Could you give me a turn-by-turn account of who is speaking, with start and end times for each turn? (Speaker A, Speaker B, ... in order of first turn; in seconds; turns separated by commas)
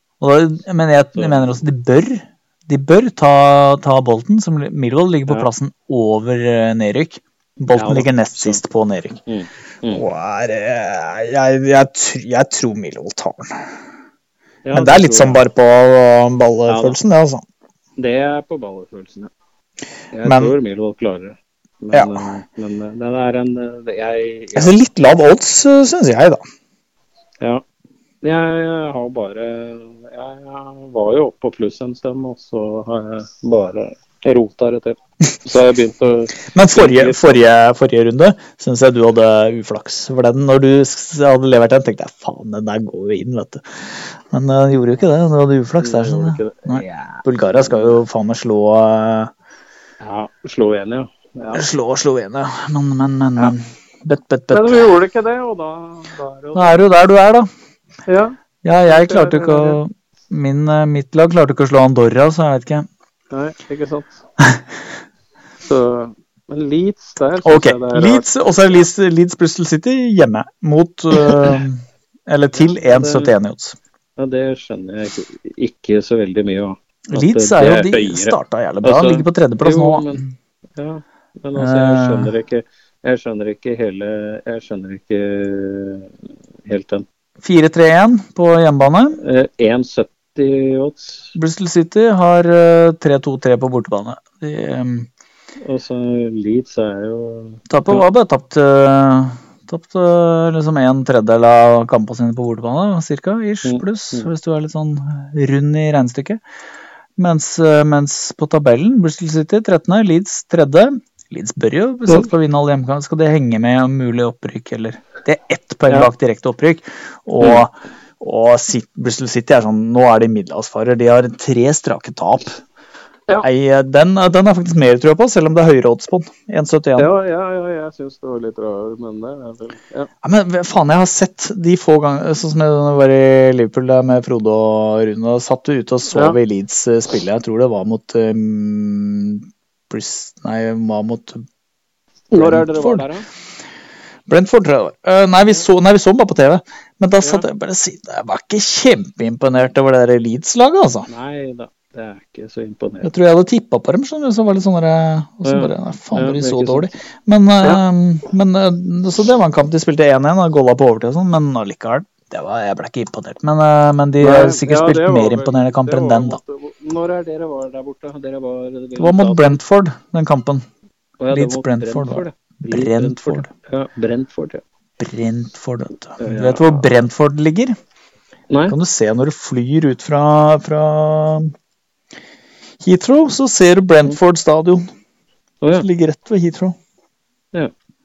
Speaker A: 0.2-9.2, Speaker B: 1.1-1.6, Speaker B: 7.7-8.6, Speaker B: 9.3-10.0, Speaker A: 9.9-13.7, Speaker B: 14.7-15.4, Speaker A: 14.7-17.4, Speaker B: 16.7-17.0, Speaker B: 18.0-19.3, Speaker B: 20.1-24.8, Speaker A: 20.2-20.5, Speaker A: 21.9-22.2, Speaker A: 24.5-26.4, Speaker B: 28.2-37.4, Speaker A: 36.4-49.3, Speaker B: 45.8-48.0, Speaker B: 50.0-51.6, Speaker A: 51.5-54.9, Speaker B: 54.5-56.8, Speaker A: 56.5-57.5, Speaker B: 58.1-58.3, Speaker A: 58.6-62.9, Speaker B: 58.9-59.8, Speaker B: 63.3-64.2, Speaker B: 65.6-68.3, Speaker A: 67.4-73.8, Speaker B: 71.1-71.6, Speaker B: 72.6-73.3, Speaker B: 74.2-80.2, Speaker A: 77.1-80.3, Speaker B: 80.8-86.1, Speaker A: 81.5-82.3, Speaker B: 86.7-87.0, Speaker A: 87.4-89.2, Speaker B: 89.2-91.3, Speaker A: 91.3-95.1, Speaker B: 95.6-98.0, Speaker A: 97.7-106.4, Speaker B: 103.6-104.3, Speaker A: 107.2-122.6, Speaker A: 123.4-127.1, Speaker B: 127.0-130.1, Speaker A: 130.2-141.4, Speaker B: 136.1-136.4, Speaker B: 142.3-143.2, Speaker A: 142.3-143.1, Speaker A: 144.3-151.1, Speaker B: 151.1-153.1, Speaker A: 153.0-166.4, Speaker B: 155.4-156.9, Speaker B: 164.2-169.6, Speaker A: 169.0-170.6, Speaker B: 171.2-174.6, Speaker A: 171.3-173.5, Speaker A: 175.0-177.8, Speaker B: 176.2-176.8, Speaker B: 178.5-178.8, Speaker A: 178.7-181.5, Speaker A: 182.8-184.9, Speaker A: 185.7-186.8